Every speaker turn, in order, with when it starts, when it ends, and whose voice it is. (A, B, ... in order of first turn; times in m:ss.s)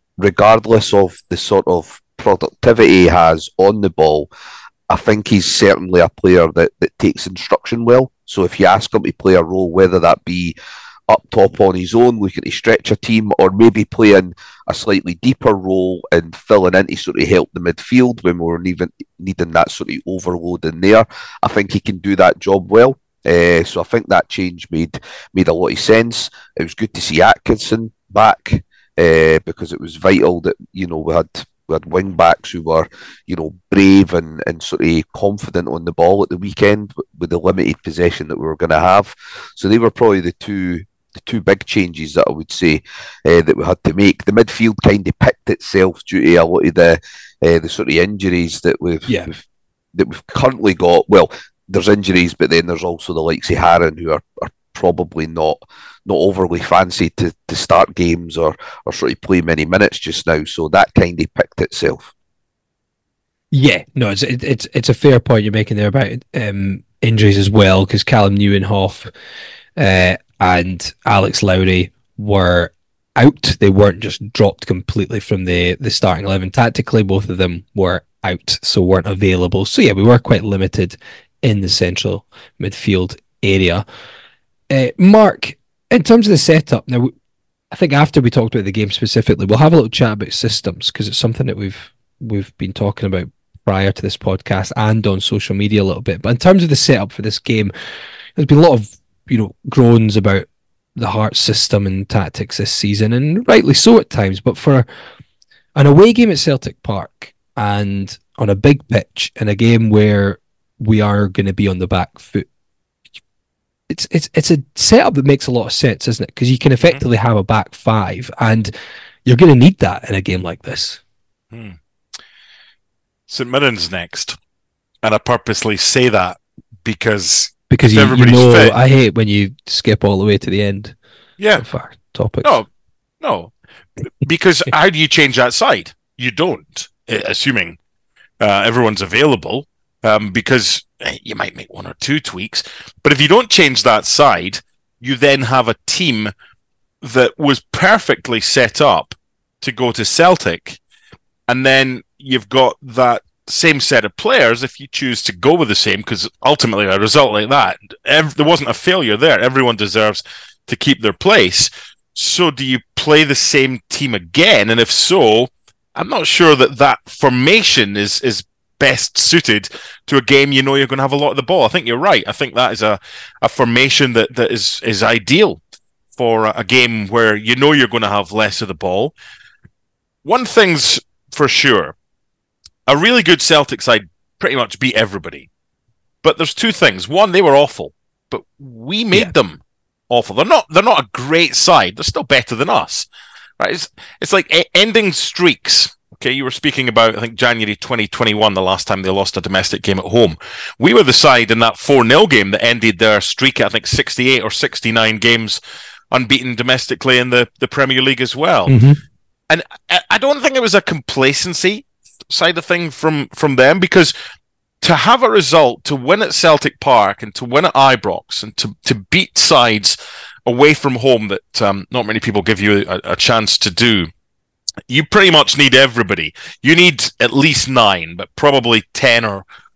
0:00.2-0:04.3 A
0:04.9-0:10.6 A
0:11.1-0:49.4 A
0:49.9-1:02.1 A
1:03.5-1:09.1 B
1:09.8-1:23.8 B
1:24.7-1:27.1 B
1:27.7-1:37.7 B
1:38.4-1:44.9 B
1:45.8-1:52.4 B
1:53.9-1:58.7 B
1:59.2-2:01.0 B
2:01.5-2:01.8 C
2:03.3-2:04.4 C
2:05.0-2:08.8 C
2:07.7-2:10.9 B
2:11.4-2:11.6 C
2:11.6-2:12.6 B
2:13.2-2:13.5 C
2:14.2-2:17.8 C
2:18.4-2:26.3 C
2:27.0-2:30.8 C
2:31.5-2:55.6 C
2:56.1-2:59.1 C
3:00.2-3:01.9 C
3:02.9-3:05.5 C
3:06.2-3:13.1 C
3:13.6-3:25.6 C
3:26.1-3:28.8 C
3:28.7-3:29.0 B
3:29.5-3:34.1 C
3:34.8-3:39.9 C
3:40.4-3:44.1 C
3:44.9-3:49.4 C